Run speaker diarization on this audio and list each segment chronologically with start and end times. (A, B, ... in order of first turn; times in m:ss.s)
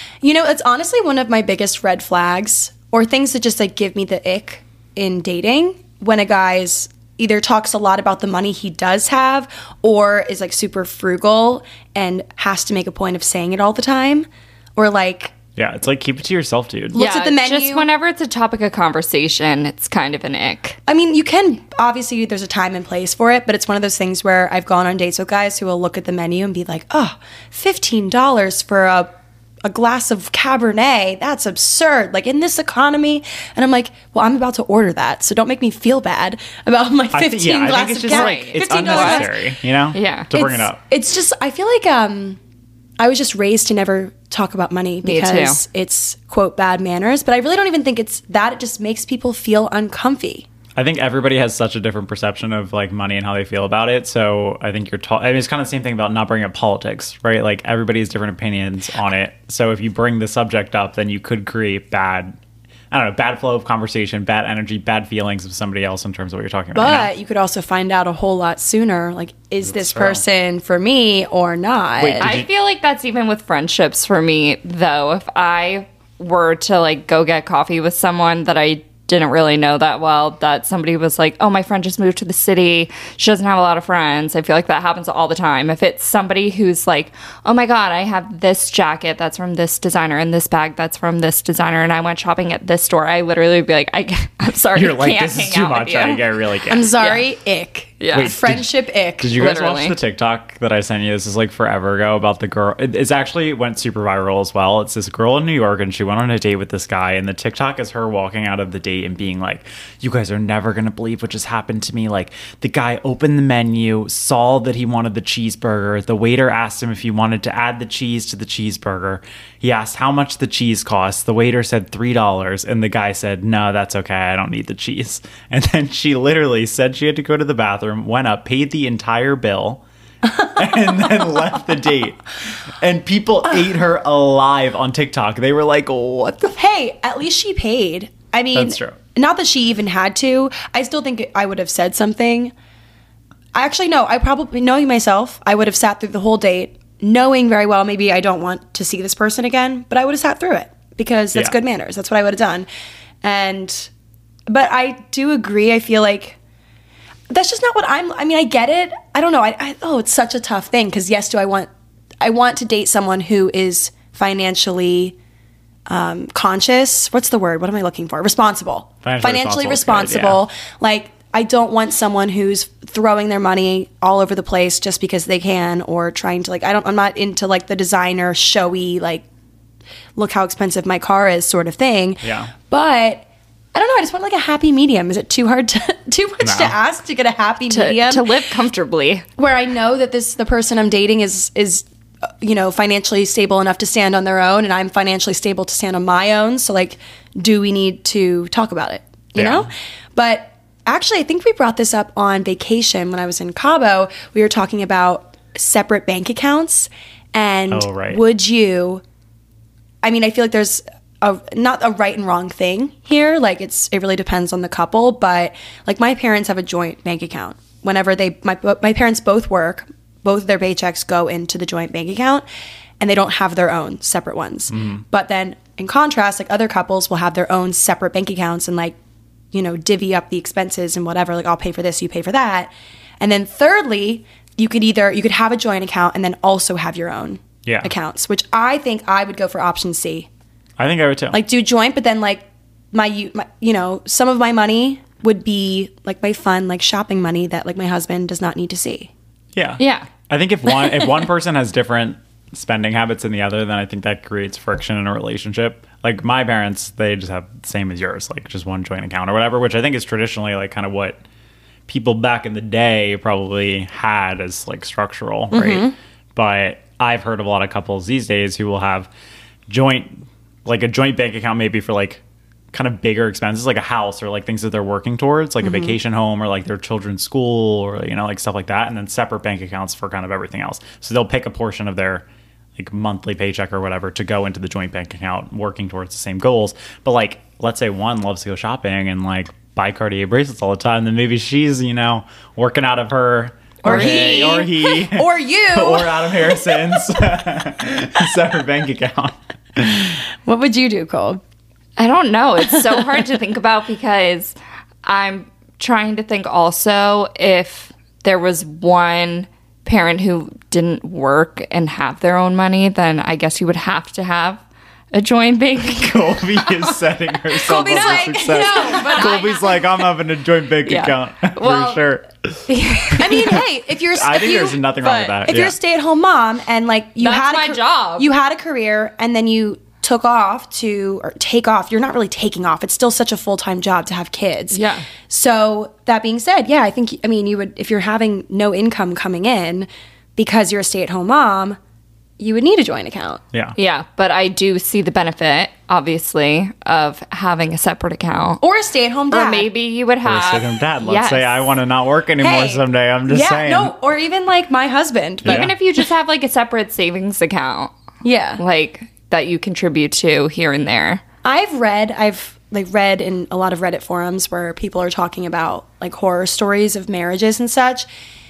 0:00.2-0:15.3 A
0:15.6-0:17.0 B
0:16.9-0:17.9 A
0:17.0-0:20.8 C
0:20.9-0:29.1 A
0:29.6-0:39.5 A
0:37.1-0:40.8 B
0:38.1-0:39.3 C
0:39.9-0:40.3 C
0:40.3-0:42.4 A
0:43.0-0:50.5 A
0:45.0-0:45.6 C
0:50.8-1:02.4 B
1:02.9-1:07.1 B
1:06.8-1:12.4 A
1:09.6-1:10.2 B
1:12.0-1:12.5 B
1:12.2-1:36.2 C
1:34.7-1:36.9 B
1:36.7-1:39.4 A
1:36.9-1:37.2 C
1:38.0-1:38.4 C
1:38.1-2:12.2 B
1:39.4-1:40.0 C
2:12.8-2:16.5 B
2:16.4-2:22.5 A
2:18.5-2:19.0 B
2:23.5-2:32.7 A
2:33.2-2:33.9 A
2:34.5-2:36.4 A
2:37.3-2:41.7 A
2:42.2-2:45.2 A
2:45.9-2:59.2 A
2:49.0-2:50.4 B
3:00.2-3:08.3 A
3:02.2-3:02.5 B
3:06.4-3:06.8 B
3:07.7-3:09.2 C
3:09.4-3:11.8 A
3:12.4-3:29.0 A
3:19.4-3:19.7 B
3:27.7-3:28.2 B
3:30.0-3:42.4 A
3:43.0-3:49.0 A
3:44.7-3:45.0 B
3:49.5-4:00.3 A
3:57.6-3:57.9 B
4:00.8-4:01.4 B
4:01.3-4:09.1 A
4:09.6-4:21.2 B
4:09.8-4:10.1 C
4:21.9-4:29.1 B
4:25.5-4:26.0 A
4:29.7-5:00.2 B
4:35.6-4:36.0 A
4:53.8-4:57.0 A
4:53.8-4:54.7 C
5:00.4-5:01.4 A
5:02.0-5:17.0 C
5:15.9-5:22.6 B
5:17.6-5:19.4 A
5:17.6-5:19.9 C
5:20.9-5:22.0 C
5:22.7-5:23.6 C
5:23.1-5:23.6 B
5:23.2-5:41.8 A
5:24.1-5:25.8 B
5:27.2-5:28.3 C
5:34.7-5:35.1 C
5:42.4-5:43.4 A
5:43.8-5:48.6 C
5:48.6-5:49.7 A
5:49.3-5:51.7 C
5:50.2-5:53.9 B
5:52.4-5:55.7 A
5:55.4-5:55.7 B
5:55.4-5:57.9 C
5:58.2-5:58.6 A
5:58.6-6:01.2 C
6:01.4-6:08.1 A